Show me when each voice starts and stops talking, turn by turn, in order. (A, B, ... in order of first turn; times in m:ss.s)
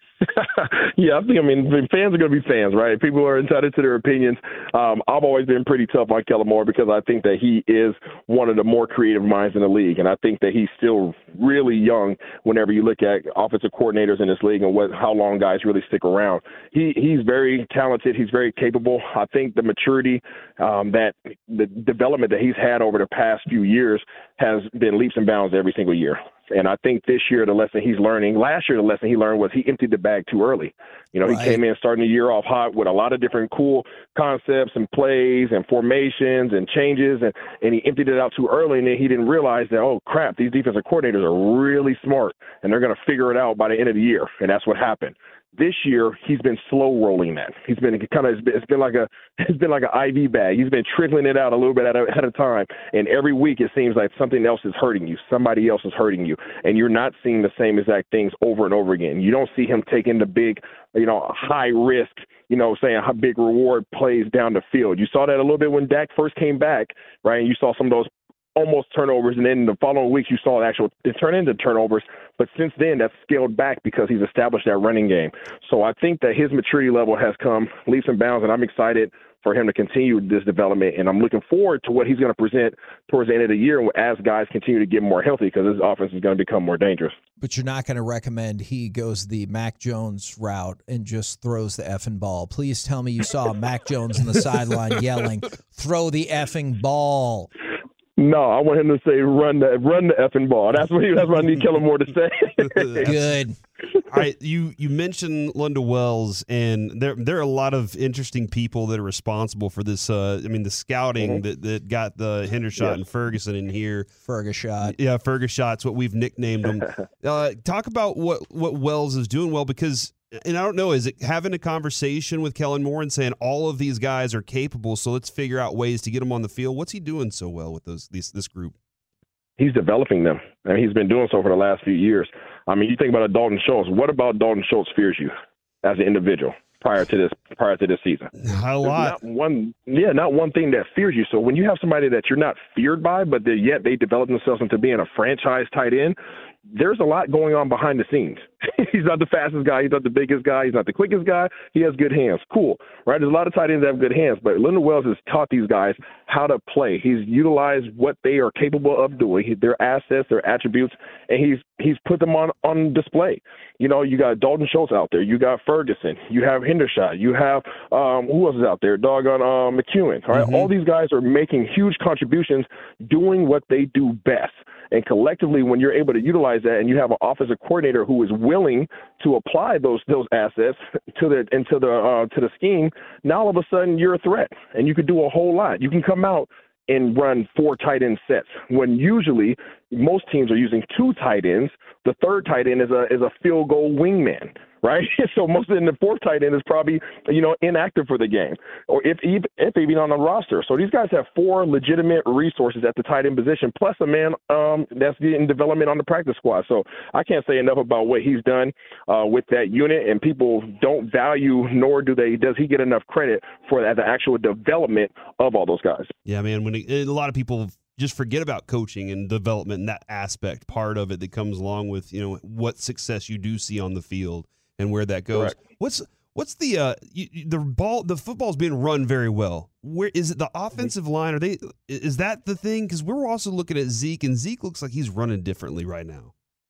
0:00.2-1:27.1 A
0:31.2-0:31.6 B
1:27.4-1:37.5 B
1:38.2-1:43.0 A
1:42.7-1:43.4 C
1:43.0-1:43.6 B
1:44.1-1:54.1 C
1:54.2-1:55.0 B
1:54.8-2:08.8 C
2:09.6-2:15.3 A
2:15.8-2:18.3 A
2:18.4-2:19.2 C
2:18.8-2:26.2 A
2:26.7-3:36.1 A
2:50.3-2:50.7 C
3:36.3-3:56.3 C